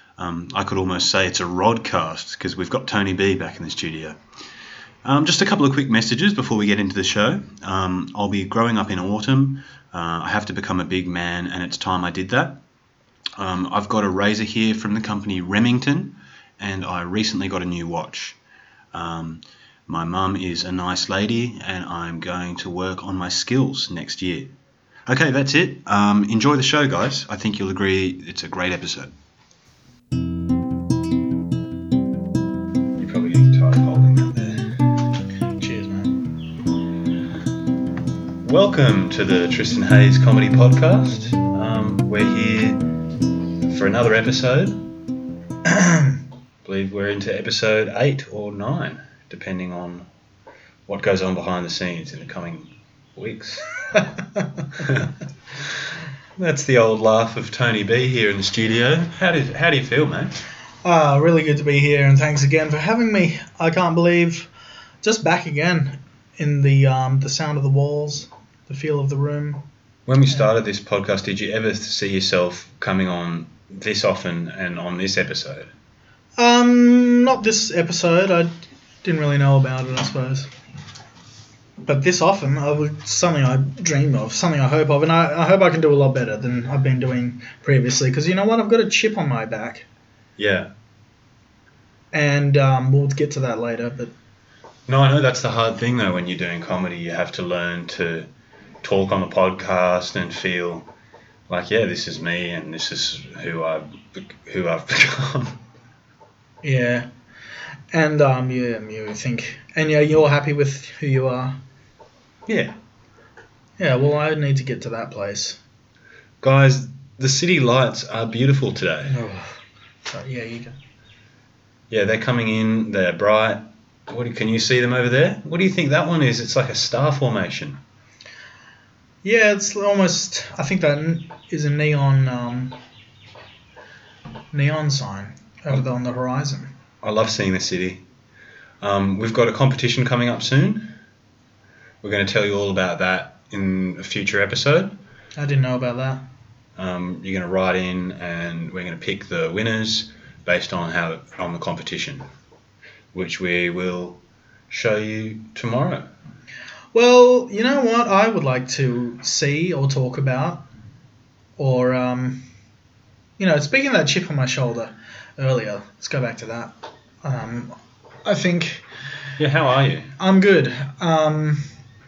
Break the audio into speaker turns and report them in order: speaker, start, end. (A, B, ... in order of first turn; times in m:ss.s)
0:00.2-0:04.2 A
0:05.0-0:12.6 A
0:13.4-0:18.4 A
0:18.9-0:24.5 A
0:25.1-0:29.1 A
0:33.0-0:34.8 A
0:35.6-0:36.2 B
0:38.4-0:42.8 A
0:43.7-0:44.8 A
0:45.6-0:46.2 B
0:46.6-0:50.1 A
0:50.9-0:53.7 A
0:53.9-0:54.7 B
0:54.8-0:55.1 A
0:56.4-1:00.3 A
1:00.8-1:04.5 B
1:05.0-1:09.6 B
1:10.1-1:15.7 A
1:16.4-1:18.5 B
1:19.0-1:20.5 B
1:21.8-1:29.8 B
1:30.4-1:30.7 A
1:32.1-1:34.1 B
1:34.9-1:38.3 A
1:38.8-1:40.9 A
1:41.5-1:45.6 A
1:46.6-1:47.1 B
1:47.9-1:51.6 B
1:52.5-1:52.7 A
1:53.8-1:55.6 B
1:56.4-1:59.1 A
1:59.1-2:00.8 B
2:01.9-2:07.8 A
2:09.2-2:12.8 B
2:14.5-2:16.7 B
2:17.0-2:18.0 A
2:18.8-2:20.9 A
2:22.0-2:24.9 A
2:25.4-2:26.2 B
2:26.8-2:32.2 A
2:33.1-2:36.1 A
2:36.9-2:40.6 B
2:41.6-2:42.4 B
2:43.4-2:48.8 B
2:49.4-2:50.1 A
2:50.2-2:51.6 B